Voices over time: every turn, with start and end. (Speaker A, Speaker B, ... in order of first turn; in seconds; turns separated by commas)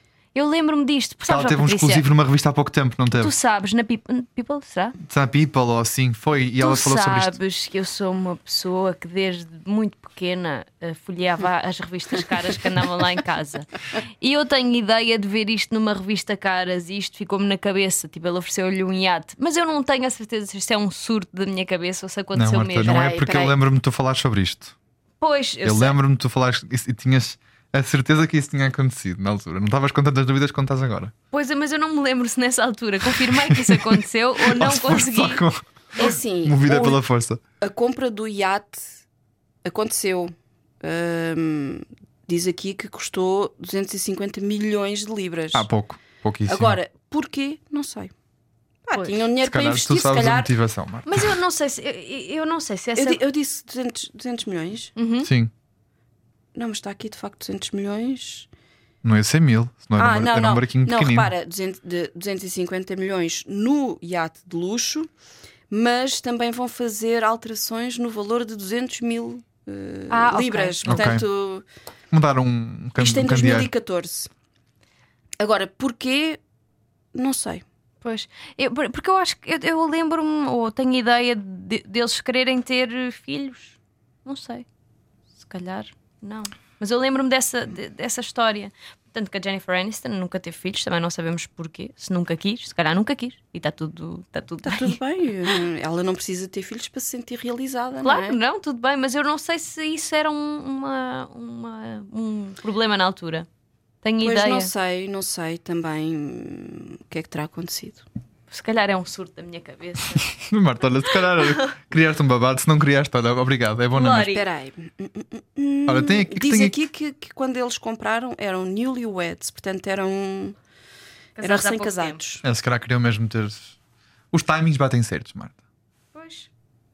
Speaker A: 0.3-2.0, Speaker B: 1.3-3.3, Speaker A: 3.2-5.0, Speaker B: 5.0-7.4, Speaker A: 6.6-23.3, Speaker B: 22.3-24.7, Speaker C: 22.8-23.5, Speaker A: 25.2-25.9, Speaker B: 25.6-31.1, Speaker A: 31.3-35.4, Speaker B: 33.2-37.4, Speaker C: 36.0-37.0, Speaker C: 37.6-39.0, Speaker C: 39.6-45.7, Speaker B: 45.5-46.8, Speaker C: 46.5-48.1, Speaker C: 48.9-50.5, Speaker B: 49.4-51.4, Speaker A: 51.0-53.2, Speaker C: 53.0-54.9, Speaker A: 55.0-55.3, Speaker B: 55.2-55.5, Speaker C: 56.5-58.5, Speaker B: 59.0-61.3, Speaker C: 60.0-65.1, Speaker C: 65.7-71.6, Speaker A: 70.1-71.1, Speaker B: 70.8-71.2, Speaker B: 72.1-73.7, Speaker C: 73.0-74.3, Speaker C: 75.4-76.4, Speaker C: 77.1-77.6, Speaker A: 78.0-84.6, Speaker A: 85.4-95.0, Speaker C: 94.6-98.4, Speaker A: 98.0-103.5, Speaker A: 104.0-104.7, Speaker C: 104.2-108.0, Speaker A: 108.5-110.3, Speaker B: 110.3-114.3, Speaker A: 111.4-111.6, Speaker A: 113.9-114.5, Speaker C: 114.3-120.5, Speaker B: 115.9-116.8, Speaker A: 121.3-122.2, Speaker C: 121.4-122.4, Speaker B: 122.4-123.7, Speaker B: 124.3-125.5, Speaker A: 126.1-126.5